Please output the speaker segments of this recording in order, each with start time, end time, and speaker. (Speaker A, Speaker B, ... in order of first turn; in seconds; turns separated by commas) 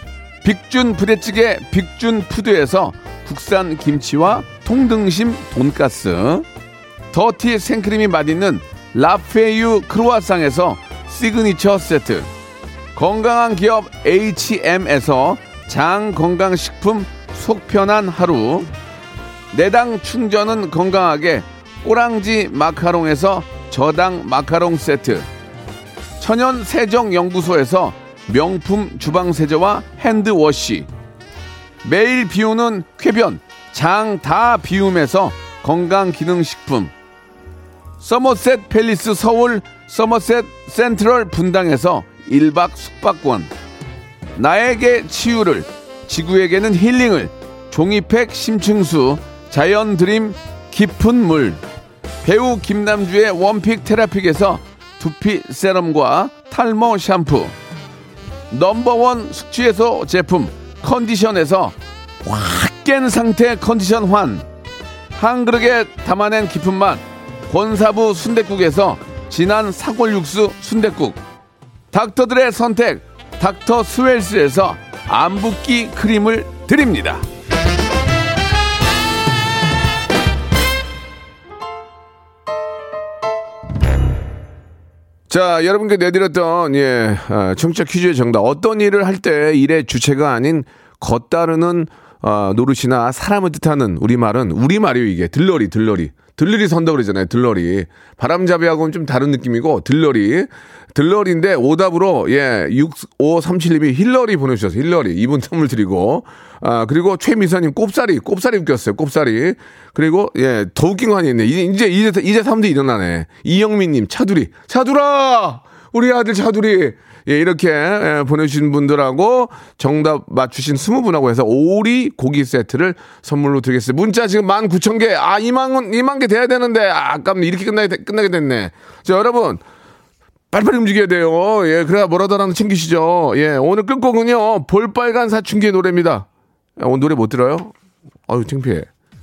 Speaker A: 0.4-6.5, Speaker A: 7.1-12.3, Speaker A: 12.9-18.7, Speaker A: 19.5-25.3, Speaker A: 26.2-30.9, Speaker A: 31.8-36.9, Speaker A: 38.0-43.5, Speaker A: 44.4-51.6, Speaker A: 52.2-57.5, Speaker A: 58.5-64.5, Speaker A: 65.2-71.2, Speaker A: 71.9-77.2, Speaker A: 85.3-129.6, Speaker A: 130.5-136.3, Speaker A: 136.8-137.7, Speaker A: 138.3-138.9